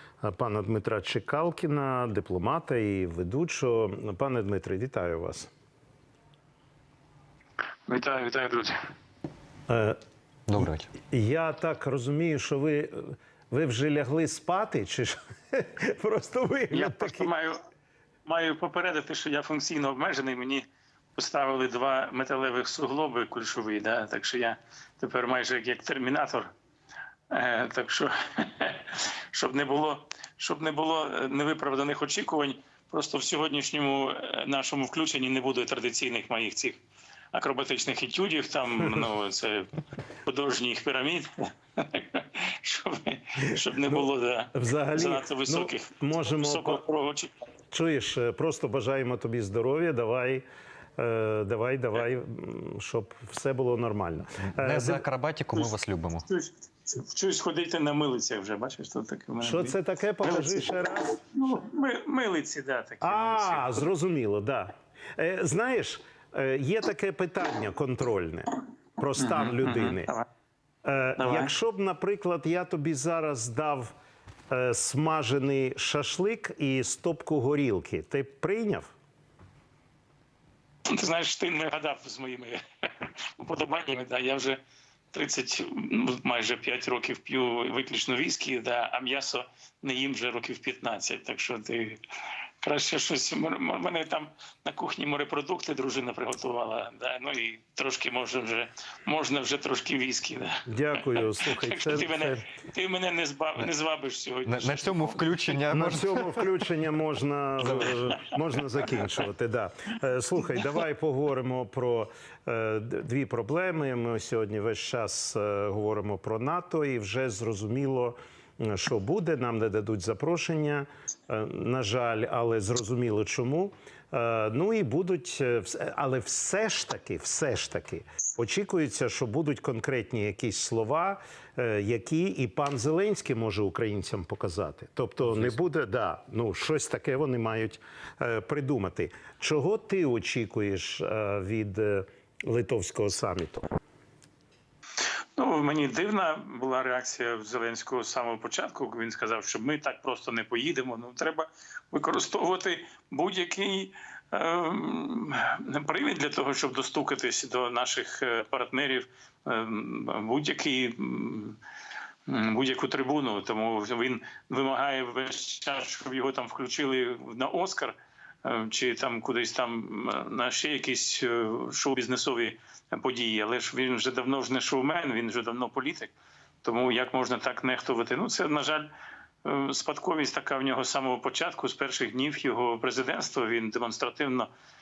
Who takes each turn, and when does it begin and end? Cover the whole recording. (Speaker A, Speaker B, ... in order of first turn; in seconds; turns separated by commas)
Speaker A: 0.2-5.5, Speaker B: 7.9-8.8, Speaker A: 9.7-10.0, Speaker C: 10.5-10.9, Speaker A: 11.1-17.3, Speaker B: 16.7-17.6, Speaker B: 18.2-26.5, Speaker B: 27.3-36.8, Speaker B: 37.3-39.7, Speaker B: 40.2-47.3, Speaker A: 44.5-46.8, Speaker A: 47.7-50.4, Speaker A: 51.0-55.0, Speaker C: 54.5-56.2, Speaker B: 56.2-63.9, Speaker A: 59.4-61.6, Speaker A: 63.0-70.1, Speaker B: 69.2-70.2, Speaker A: 70.8-73.9, Speaker B: 71.2-71.5, Speaker A: 74.5-78.9, Speaker B: 80.9-84.6, Speaker B: 85.1-92.0, Speaker B: 92.6-105.3, Speaker A: 100.7-102.4, Speaker C: 104.5-106.5, Speaker A: 105.7-143.7, Speaker C: 107.6-108.0, Speaker B: 145.4-161.6, Speaker B: 162.3-178.9, Speaker B: 179.4-184.5